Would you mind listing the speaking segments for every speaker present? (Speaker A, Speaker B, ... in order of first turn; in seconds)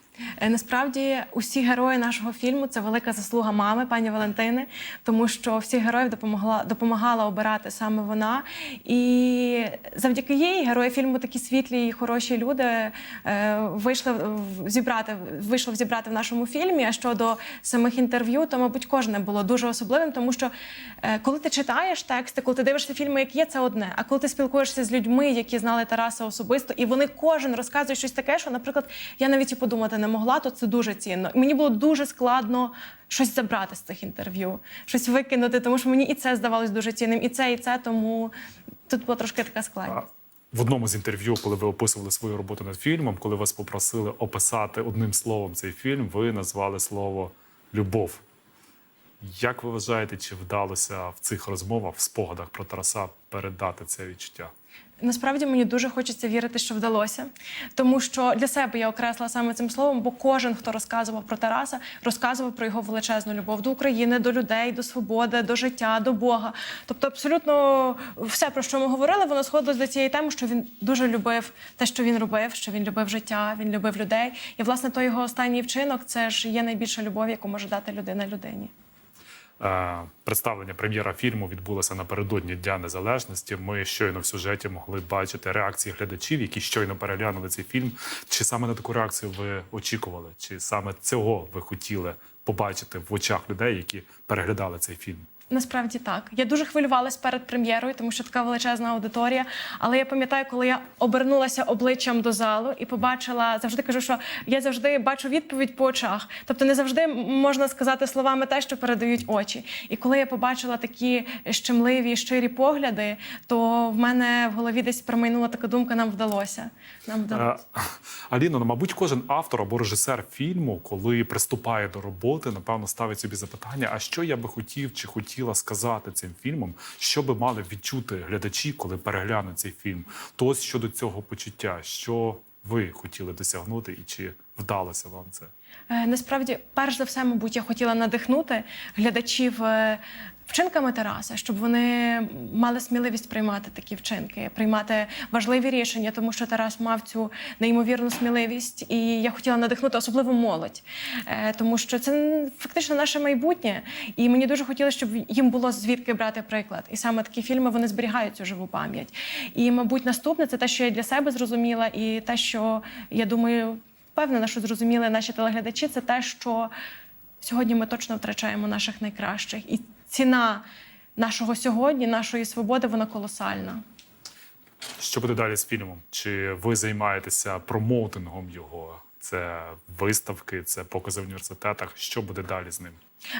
Speaker A: 0.4-20.5, 21.0-38.3, 38.9-40.0, 55.0-78.7, 95.5-117.5, 135.9-166.7, 167.4-170.6, 171.2-173.8
Speaker B: 39.9-48.2, 49.2-54.5, 79.6-95.2, 117.3-135.5, 175.0-183.0